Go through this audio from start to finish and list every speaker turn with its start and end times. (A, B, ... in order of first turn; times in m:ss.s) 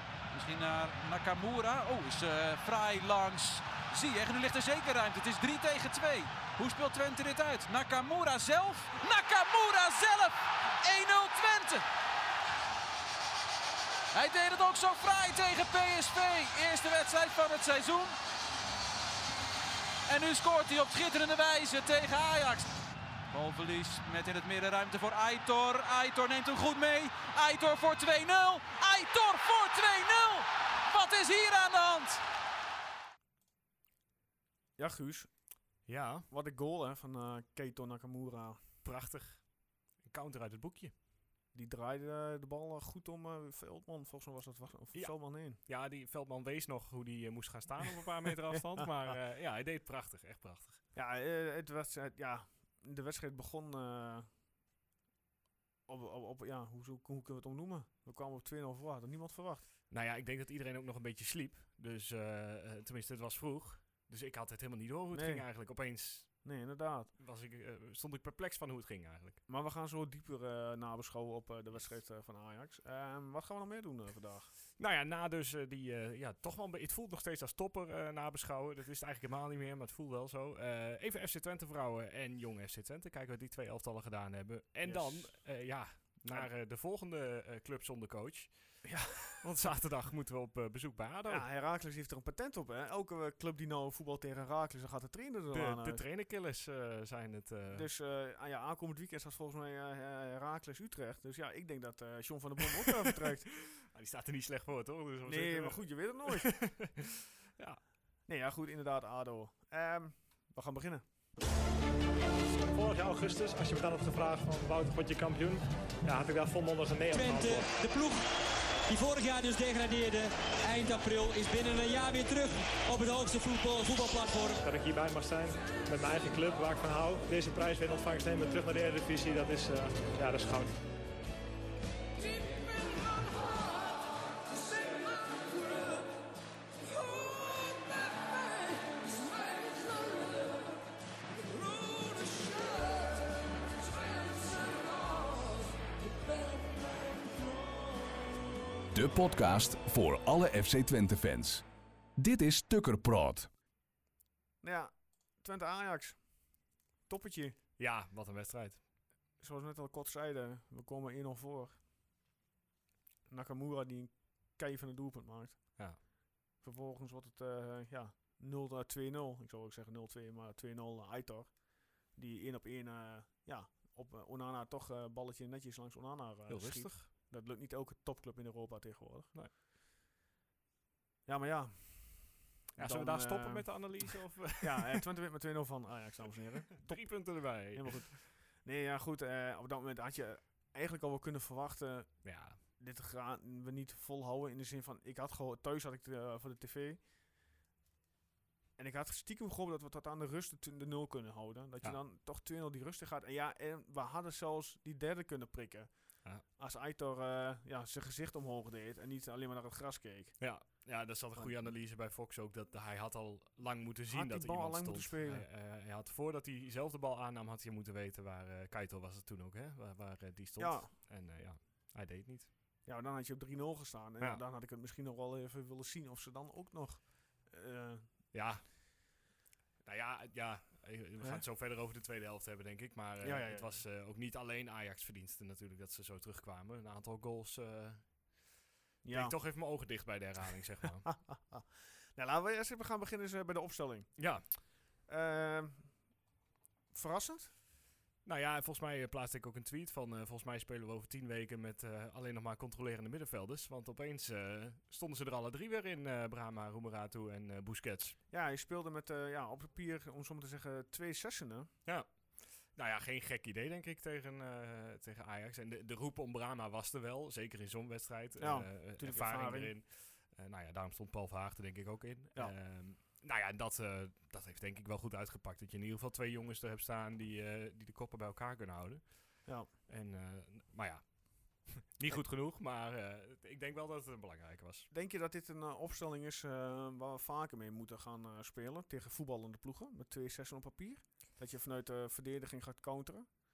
0:00.3-0:11.8 A
0:14.1-0:18.2 A
0:20.1-0:22.8 A
0:23.3-0:32.2 A
0:34.8-0:35.3 B
0:35.8-0:36.3 C
0:36.3-0:38.6 B
0:38.8-0:39.4 C
0:40.0-0:40.9 C
0:41.5-0:45.6 B
0:45.6-0:50.8 C
0:48.5-0:48.9 B
0:50.9-0:54.3 B
0:55.9-0:59.6 B
0:59.9-1:06.3 C
1:05.1-1:05.4 B
1:06.4-1:07.1 B
1:07.2-1:09.4 C
1:09.5-1:14.5 B
1:14.8-1:28.5 C
1:24.8-1:25.4 B
1:28.8-1:29.7 B
1:29.3-1:31.4 C
1:31.3-1:36.0 B
1:35.5-1:37.9 C
1:37.7-1:43.5 B
1:42.7-1:47.8 C
1:45.2-1:46.6 B
1:48.3-1:51.0 B
1:52.7-1:57.7 D
1:57.1-1:58.2 E
1:58.9-2:04.6 E
2:04.6-2:10.8 D
2:28.9-2:31.6 F
2:32.2-2:33.5 F
2:34.6-2:36.2 B
2:37.1-2:37.6 B
2:37.8-2:38.8 C
2:39.4-2:41.8 B
2:43.3-2:45.8 B
2:46.6-2:51.6 B
2:52.1-2:59.3 B
2:56.5-2:57.1 C
3:01.2-3:12.1 B
3:02.8-3:05.0 C
3:06.8-3:08.1 C
3:12.2-3:12.6 C
3:12.8-3:17.0 B
3:18.8-3:25.9 B
3:26.6-3:30.4 B
3:30.4-3:42.5 C
3:31.4-3:31.6 B
3:34.1-3:35.4 B
3:40.6-3:40.9 B
3:42.8-3:48.0 B
3:48.3-3:48.6 C
3:49.8-3:58.0 C
3:53.2-3:53.8 B
3:59.0-3:59.4 B
3:59.1-4:01.1 C
4:01.0-4:04.1 B
4:04.2-4:04.4 C
4:05.1-4:05.9 B
4:06.9-4:07.5 B
4:08.2-4:18.2 C
4:18.3-4:21.7 B
4:21.8-4:39.0 C
4:28.4-4:29.7 B
4:39.9-4:41.0 C
4:41.6-4:44.9 C
4:44.9-4:53.2 B